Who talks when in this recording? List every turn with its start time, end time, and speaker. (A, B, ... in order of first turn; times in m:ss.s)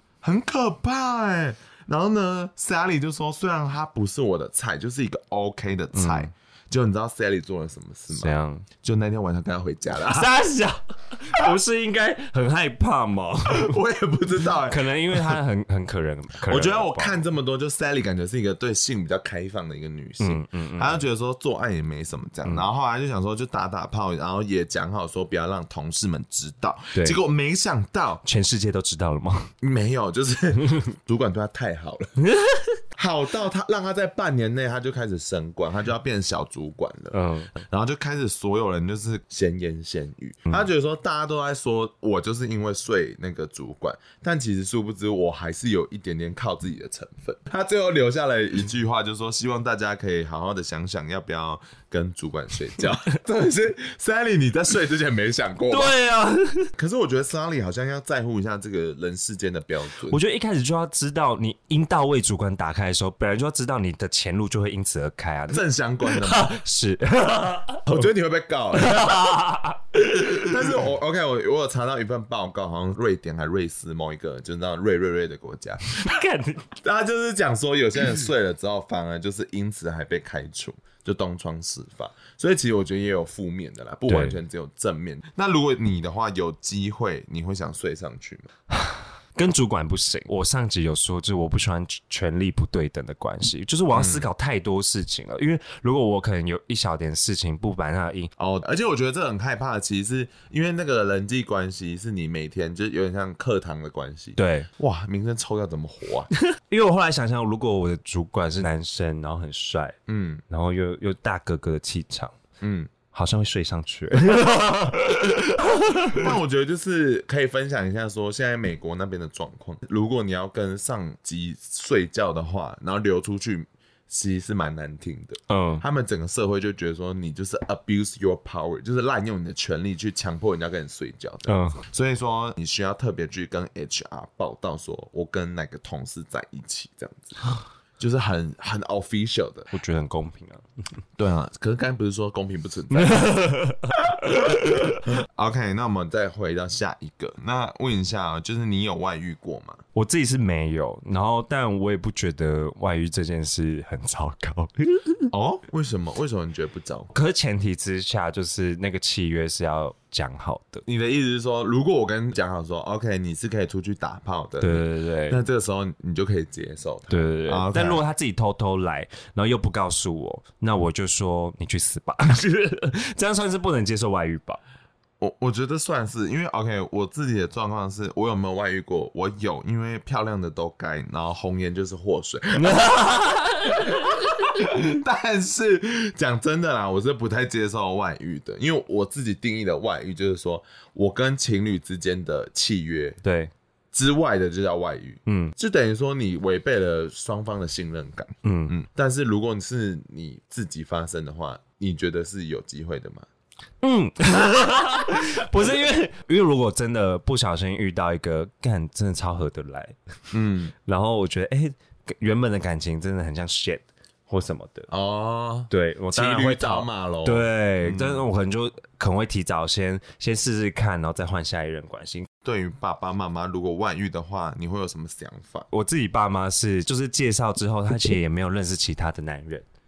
0:00.2-0:10.3 A
0:05.9-0:06.3 B
0:08.1-0:08.6 B
0:10.1-0:13.8 B
0:13.5-0:15.4 A
0:14.7-0:17.2 B
0:16.4-0:28.2 A
0:20.2-0:21.0 B
0:28.2-0:29.5 B
0:29.6-0:32.2 A
0:32.2-0:32.8 B
0:33.0-0:56.0 A
0:37.1-0:37.5 B
0:55.7-0:56.7 B
0:56.7-1:00.2 A
1:00.1-1:08.0 B
1:05.5-1:06.5 A
1:07.8-1:09.3 A
1:08.8-1:10.5 B
1:10.2-1:16.1 A
1:15.9-1:16.7 B
1:16.8-1:28.5 A
1:24.1-1:24.4 B
1:28.7-1:38.3 B
1:33.9-1:34.3 A
1:38.4-1:46.3 A
1:44.4-1:44.7 B
1:46.5-1:50.0 B
1:50.1-1:50.4 A
1:50.5-1:52.4 B
1:52.6-1:52.9 A
1:53.1-1:56.2 B
1:55.6-2:17.4 A
2:05.5-2:05.8 B
2:11.5-2:11.8 B
2:18.0-2:19.7 A
2:19.7-2:20.6 B
2:21.2-2:23.4 A
2:22.9-2:24.0 B
2:24.0-2:29.8 A
2:29.9-2:35.3 B
2:35.3-2:37.1 A
2:37.1-2:40.8 B
2:40.8-2:48.0 A
2:44.6-2:45.4 B
2:47.1-2:54.6 B
2:55.2-3:03.0 A
3:02.6-3:04.1 B
3:03.7-3:13.2 A
3:13.2-3:13.5 B
3:13.9-3:23.2 A
3:15.2-3:15.5 B
3:18.4-3:18.7 B
3:23.8-3:30.0 B
3:30.3-3:30.7 A
3:30.8-3:34.9 B
3:34.9-3:38.2 A
3:35.7-3:42.3 B
3:42.4-3:45.7 A
3:45.7-3:49.6 B